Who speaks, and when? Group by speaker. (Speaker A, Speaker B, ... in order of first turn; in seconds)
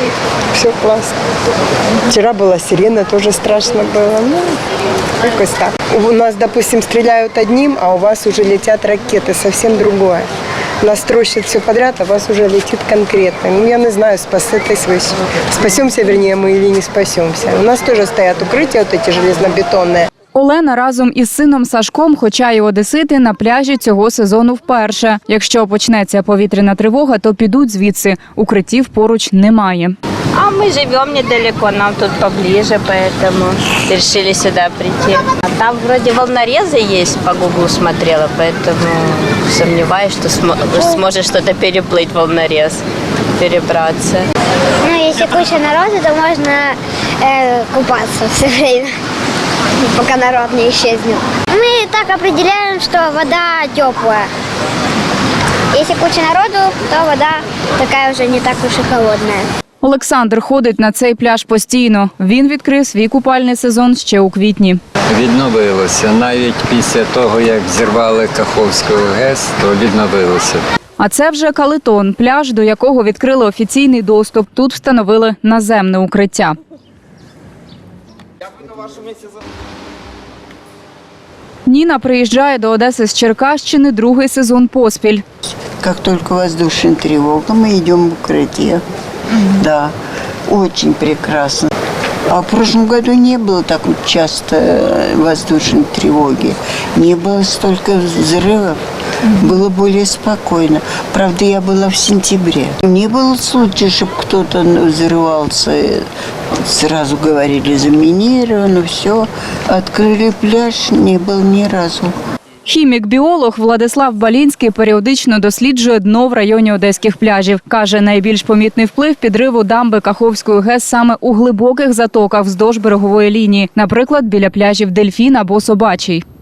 Speaker A: 0.5-1.2, 2.1-4.6, 5.2-10.3, 10.8-20.1
Speaker B: 20.3-29.9, 59.8-64.8, 71.0-76.5, 81.7-85.2, 112.7-126.2
Speaker C: 30.3-42.8, 43.4-44.3
Speaker D: 44.8-48.9, 49.9-54.3, 55.7-59.5
Speaker E: 65.1-70.6
Speaker F: 85.8-88.8, 89.3-89.9, 90.5-91.7, 92.3-106.0, 106.6-112.1